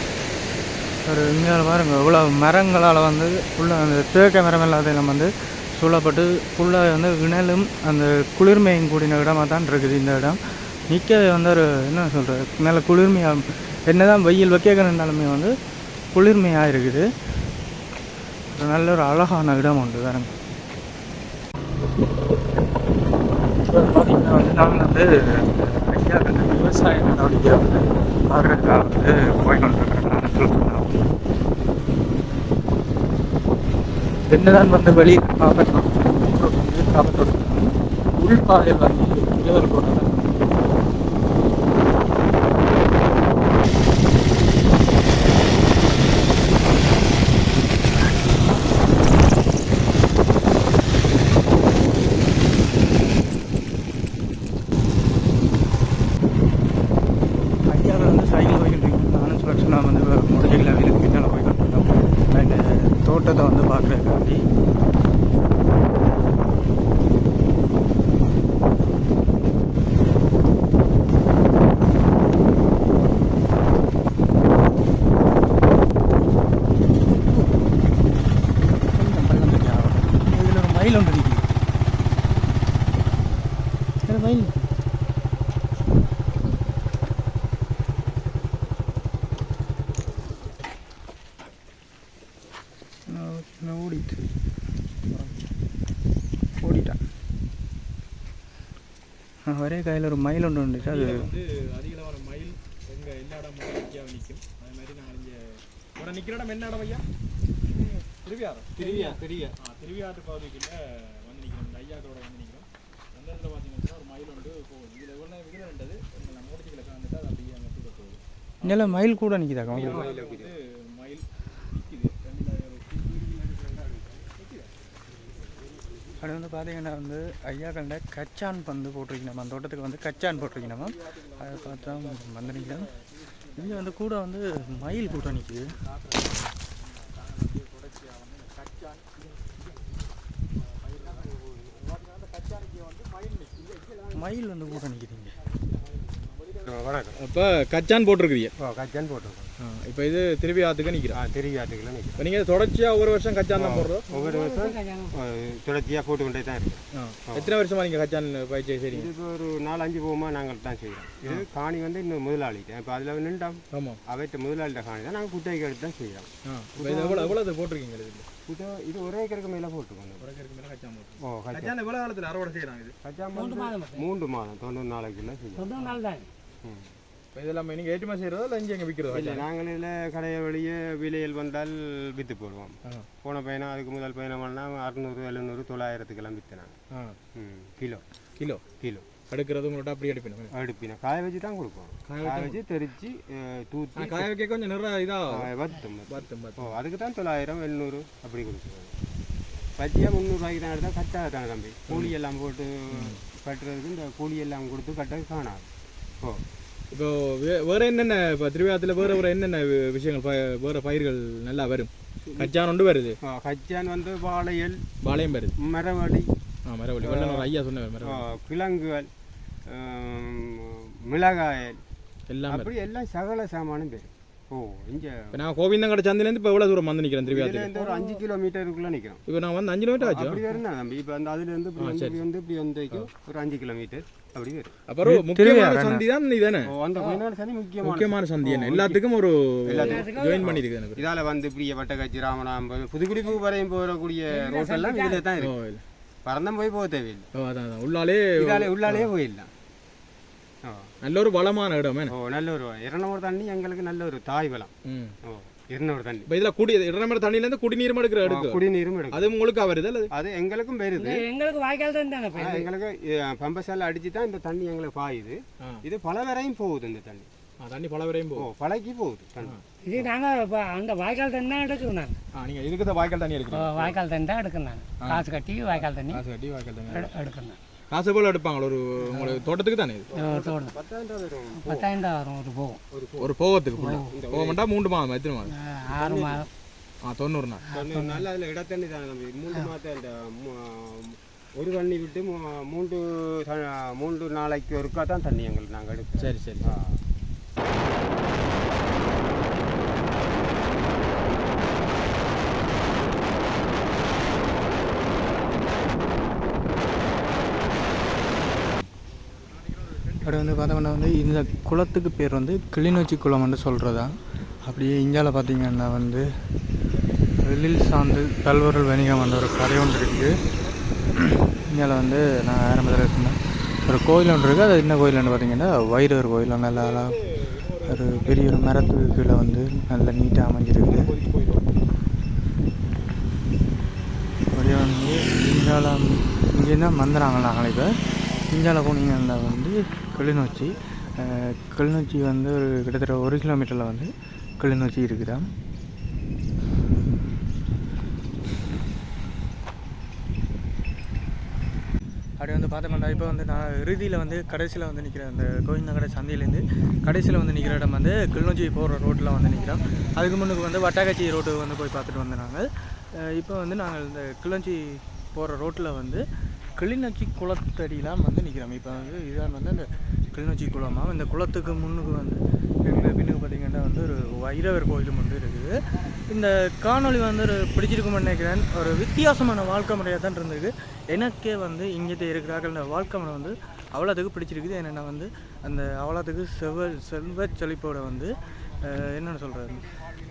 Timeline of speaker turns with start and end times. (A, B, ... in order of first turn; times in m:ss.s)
0:01.0-0:15.5 A
0:16.1-0:17.0 A
0:18.5-0:20.3 A
0:23.6-0:31.0 A
0:34.3-0:40.5 A
0:57.7-1:04.4 A
1:17.2-1:17.5 A
1:18.9-1:21.6 A
1:24.0-1:24.7 A
1:33.1-1:34.2 A
1:36.6-1:37.0 A
1:39.4-1:41.3 A
1:40.8-1:47.0 B
1:48.1-1:59.1 B
1:48.8-1:49.5 C
1:58.6-2:00.0 A
1:59.7-2:04.7 B
1:59.7-2:00.6 C
2:06.2-2:12.8 A
2:10.7-2:12.7 B
2:13.6-2:15.7 A
2:17.3-2:19.1 B
2:21.0-2:23.7 B
2:24.1-2:25.3 A
2:26.6-2:27.2 C
2:27.2-2:28.5 B
2:28.6-2:29.5 C
2:29.6-2:31.2 B
2:31.1-2:32.2 C
2:32.2-2:34.0 B
2:33.5-2:37.6 C
2:34.1-2:35.1 D
2:37.0-2:39.1 B
2:38.9-2:47.4 C
2:43.7-2:44.0 B
2:46.4-2:48.2 B
2:48.5-2:50.3 C
2:50.2-2:52.9 B
2:51.3-2:51.7 C
2:53.0-2:55.7 C
2:53.3-2:54.0 D
2:55.5-2:56.3 D
2:56.6-2:56.9 C
2:57.3-2:59.4 B
2:59.1-3:06.7 C
3:07.3-3:08.0 C
3:08.8-3:09.1 C
3:09.3-3:10.5 B
3:10.5-3:14.3 C
3:12.1-3:12.6 B
3:14.0-3:15.5 B
3:15.3-3:18.9 C
3:16.1-3:16.8 B
3:19.8-3:25.7 C
3:21.9-3:22.1 B
3:26.9-3:33.2 B
3:32.2-3:32.5 C
3:33.2-3:34.8 C
3:35.0-3:35.5 B
3:35.6-3:36.3 C
3:36.6-3:38.2 B
3:37.0-3:39.1 C
3:39.7-3:41.8 C
3:42.3-3:42.7 B
3:42.5-3:45.4 C
3:45.3-3:47.7 B
3:47.3-3:49.2 C
3:47.8-3:48.1 D
3:49.2-3:50.4 B
3:50.0-3:54.7 C
3:51.8-3:52.2 B
3:54.9-3:56.7 B
3:55.0-3:56.0 A
3:56.7-3:59.0 C
3:57.8-4:01.0 B
3:59.6-4:05.5 C
3:59.8-4:00.5 D
4:04.3-4:05.3 D
4:05.4-4:05.8 B
4:06.2-4:07.2 C
4:07.3-4:09.1 B
4:08.4-4:09.5 C
4:10.6-4:10.9 C
4:11.0-4:12.1 B
4:12.1-4:14.7 C
4:14.9-4:15.1 B
4:15.2-4:16.2 C
4:16.3-4:20.1 B
4:18.2-4:19.3 C
4:20.1-4:21.2 C
4:21.0-4:22.7 D
4:22.3-4:27.3 C
4:27.6-4:28.5 B
4:28.4-4:29.6 C
4:29.8-4:32.2 D
4:32.4-4:34.0 B
4:33.5-4:36.2 D
4:35.0-4:37.2 B
4:36.9-4:37.6 D
4:37.9-4:40.1 B
4:40.1-4:41.9 C
4:40.1-4:40.8 D
4:41.6-4:42.8 D
4:42.9-4:43.3 C
4:43.2-4:45.5 B
4:43.7-4:44.1 D
4:44.1-4:44.6 C
4:45.5-4:46.5 D
4:45.9-4:46.4 C
4:47.0-4:47.7 B
4:47.7-4:48.2 D
4:47.7-4:57.0 C
4:56.2-4:56.8 B
5:10.2-5:16.3 A
5:17.4-5:20.3 A
5:21.2-5:27.2 A
5:26.8-5:29.2 B
5:27.9-5:31.1 A
5:30.8-5:31.6 B
5:34.5-5:37.9 A
5:38.5-5:45.4 A
5:52.4-6:06.2 A
6:06.8-6:15.7 A
6:16.3-6:29.9 A